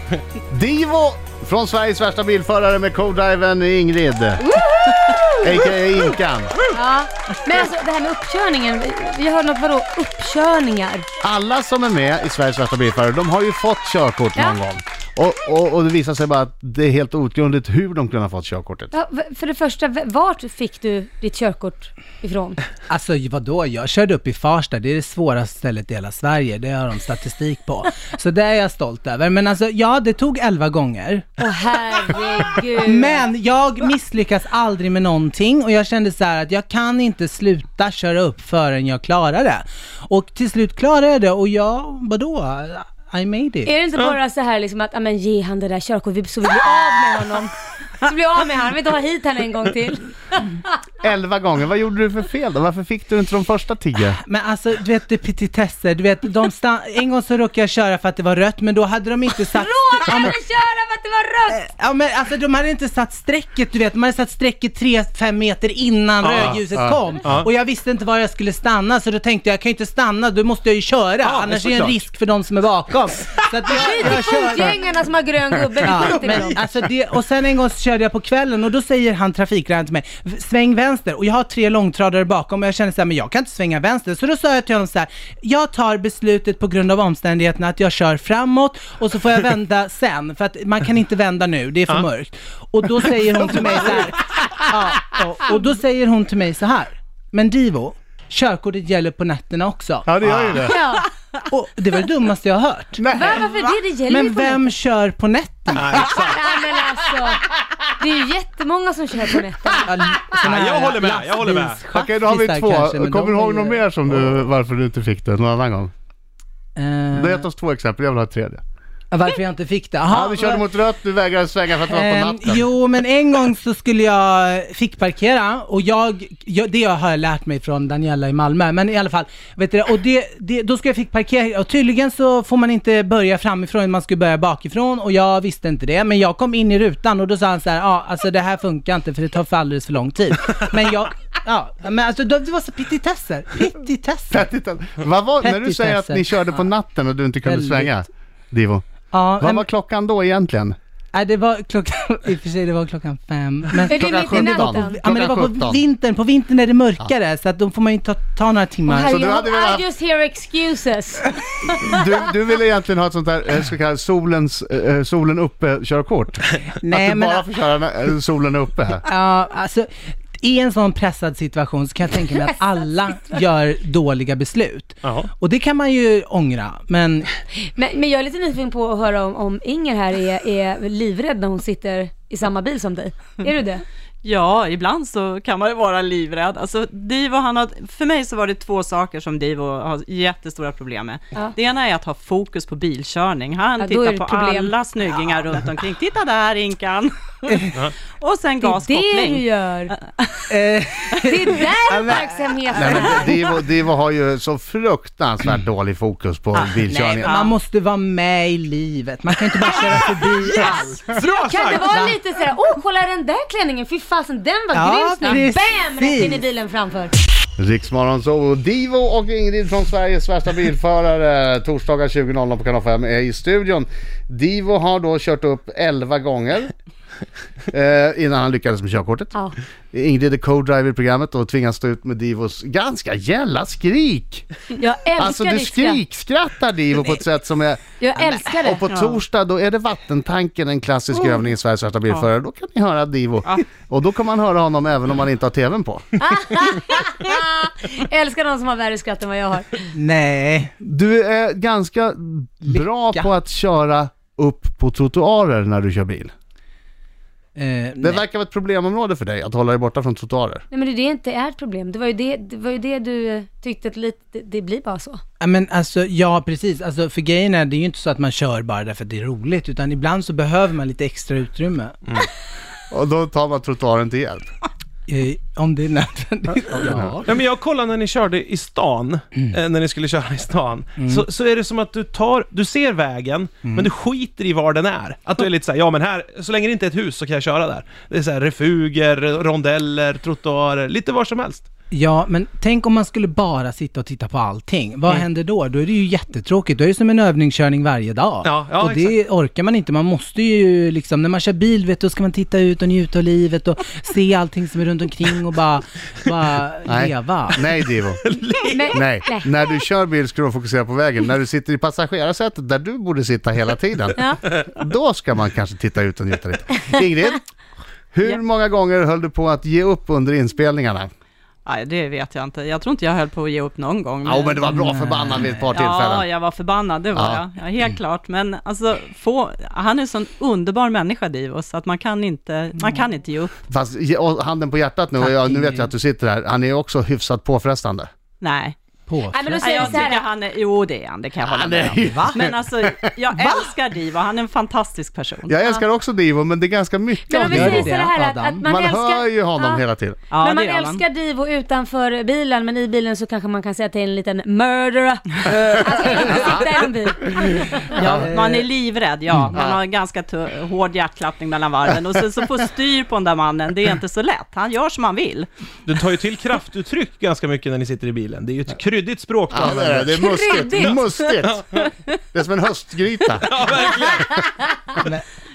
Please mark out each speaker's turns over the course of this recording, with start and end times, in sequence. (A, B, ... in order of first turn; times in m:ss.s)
0:00.5-0:04.6 A
0:04.6-0:05.2 B
0:05.3-0:06.6 A
0:06.7-0:11.1 B
0:11.2-0:18.9 A
0:18.9-0:22.6 B
0:22.9-0:31.4 C
0:31.4-0:33.2 B
0:32.8-0:43.7 C
0:43.7-0:50.8 B
0:51.0-0:54.2 A
0:54.2-1:00.4 C
0:59.6-1:01.6 B
1:01.5-1:14.8 C
1:06.2-1:06.7 D
1:07.2-1:07.5 D
1:11.2-1:12.0 D
1:13.7-1:16.6 B
1:15.9-1:40.6 C
1:40.1-1:40.8 A
1:40.3-1:40.6 D
1:40.6-1:41.1 B
1:41.5-1:43.1 C
1:43.0-1:43.5 A
1:43.1-1:44.6 B
1:44.1-1:46.0 C
1:45.7-1:47.1 D
1:46.0-1:47.5 B
1:48.0-1:49.9 B
1:49.8-1:54.3 C
1:50.3-1:51.8 D
1:51.9-1:55.9 A
1:56.8-1:57.5 C
1:57.1-1:58.6 A
1:59.1-2:00.6 C
2:00.1-2:02.6 A
2:01.9-2:24.5 C
2:24.3-2:28.9 A
2:25.4-2:26.7 C
2:27.4-2:27.9 C
2:29.1-2:29.7 C
2:29.4-2:30.8 A
2:31.1-2:39.2 C
2:33.8-2:35.0 B
2:33.9-2:35.8 A
2:38.9-2:42.1 B
2:39.0-2:39.8 A
2:41.8-2:49.0 A
2:46.8-2:47.5 C
2:49.0-2:57.3 C
2:55.0-2:55.3 D
2:57.6-3:03.8 B
3:04.2-3:20.6 E
3:13.8-3:14.7 B
3:18.6-3:19.9 B
3:20.5-3:22.6 C
3:21.2-3:23.4 B
3:22.7-3:23.4 E
3:22.8-3:27.3 A
3:26.9-3:31.1 C
3:27.2-3:27.5 E
3:30.6-3:32.2 D
3:31.4-3:37.2 B
3:31.9-3:32.2 C
3:34.7-3:36.4 C
3:37.6-3:46.7 A
3:47.7-3:49.4 A
3:49.9-3:54.4 A
3:54.8-3:56.0 B
3:55.2-4:06.2 A
3:58.0-3:58.8 B
3:58.9-3:59.2 E
4:06.2-4:09.9 B
4:10.0-4:10.7 C
4:10.8-4:16.3 A
4:12.7-4:13.3 C
4:17.6-4:18.2 C
4:18.0-4:20.6 A
4:20.7-4:25.2 B
4:25.4-4:32.0 C
4:32.9-4:34.5 A
4:35.1-4:37.3 C
4:37.2-4:51.7 D
4:51.9-5:07.6 C
4:58.4-4:59.2 D
5:06.9-5:08.2 A
5:08.2-5:09.0 D
5:08.6-5:09.5 B
5:08.9-5:17.5 A
5:18.1-5:21.1 A
5:21.7-5:24.6 E
5:24.2-5:26.3 A
5:24.6-5:25.7 C
5:25.8-5:33.5 E
5:27.2-5:27.4 A
5:33.7-5:38.1 A
5:35.2-5:35.9 C
5:38.4-5:38.8 E
5:39.1-5:40.1 C
5:39.3-5:40.2 B
5:39.6-5:45.5 E
5:41.5-5:43.6 A
5:42.0-5:42.4 C
5:45.5-5:47.9 A
5:45.6-5:45.8 B
5:47.3-5:49.8 B
5:47.4-5:48.6 C
5:48.6-5:50.2 A
5:50.3-5:51.0 E
5:50.4-5:58.0 B
5:58.0-6:05.5 E
5:58.2-5:58.6 C
6:05.9-6:10.2 D
6:09.5-6:11.6 A
6:10.2-6:11.2 B
6:10.8-6:11.9 D
6:12.3-6:13.5 A
6:13.4-6:14.7 D